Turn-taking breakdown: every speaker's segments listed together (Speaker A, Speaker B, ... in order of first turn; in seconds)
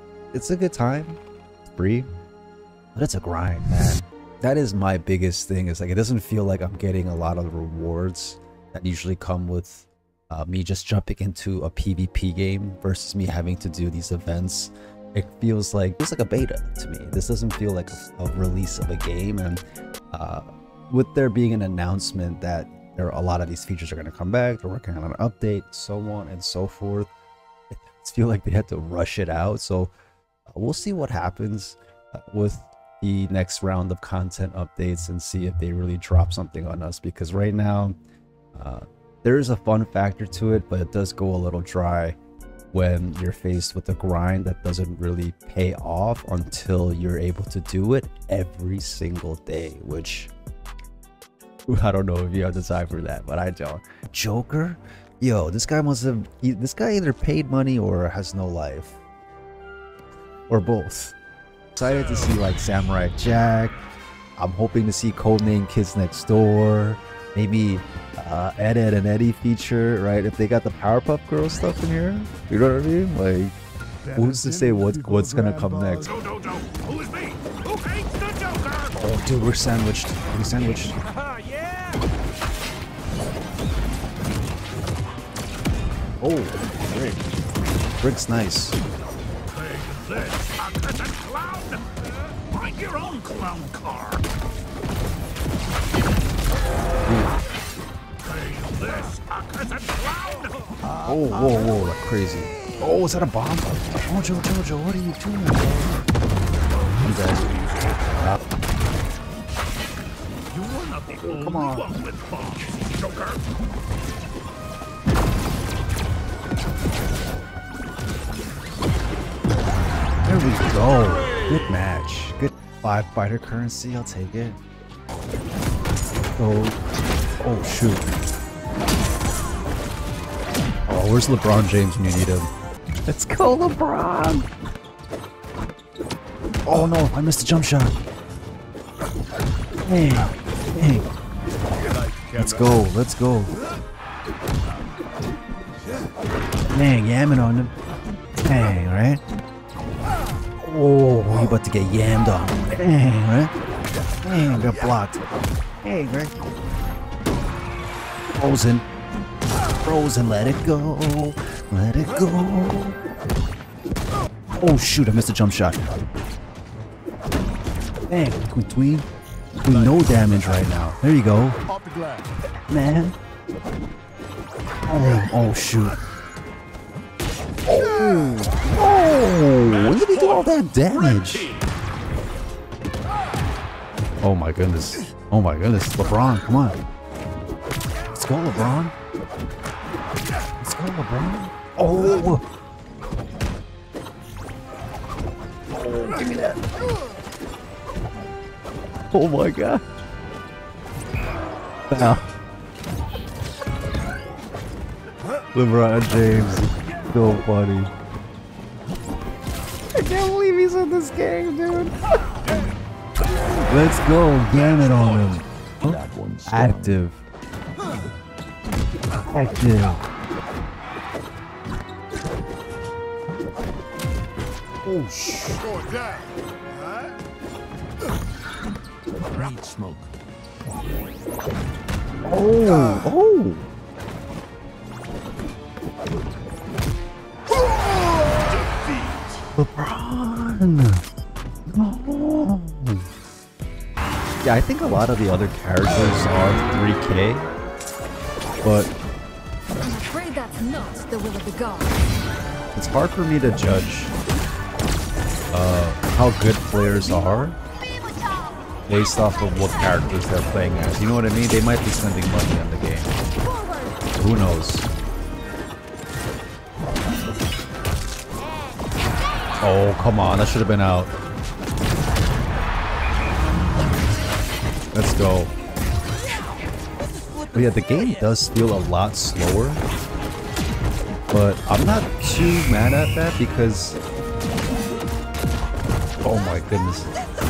Speaker A: 0.3-1.2, 1.7-2.1, 2.9-27.1, 27.7-29.9, 30.5-38.0, 38.5-42.1, 42.7-50.3, 51.7-59.0, 60.5-61.2, 61.8-63.8, 64.4-73.6, 74.1-76.2, 78.9-81.0, 86.2-87.2, 88.0-88.8, 97.0-97.3, 101.0-106.0, 107.0-108.4, 111.2-111.9, 120.2-124.6, 126.4-126.8, 127.4-128.1, 130.9-132.5, 133.1-134.5, 136.7-138.0, 139.8-141.1, 142.3-143.6, 146.7-147.7, 148.4-149.2, 150.6-153.5, 154.2-155.2, 155.8-156.4, 158.3-158.9, 159.8-163.0, 164.5-165.8, 168.1-169.1, 169.6-171.6, 172.7-173.2, 174.9-176.0, 177.7-181.5, 184.2-186.8, 188.1-188.9, 190.6-192.4, 195.8-196.6, 199.1-199.8, 201.9-202.3, 205.5-207.9, 209.9-211.9, 213.6-217.2, 219.2-220.0, 224.8-225.7, 232.2-233.7, 239.6-241.0, 241.7-243.1, 244.4-247.5, 248.6-248.9, 252.8-254.1, 255.5-257.6, 258.9-263.2, 264.1-264.9, 269.6-271.1, 274.9-275.5, 277.5-279.8, 281.3-284.0, 286.2-287.1
Speaker B: 76.2-78.9, 81.4-81.7, 89.5-94.2, 98.2-100.7, 110.5-111.3, 111.9-113.4, 215.9-216.9, 229.3-230.1
Speaker C: 249.8-252.0, 263.5-263.9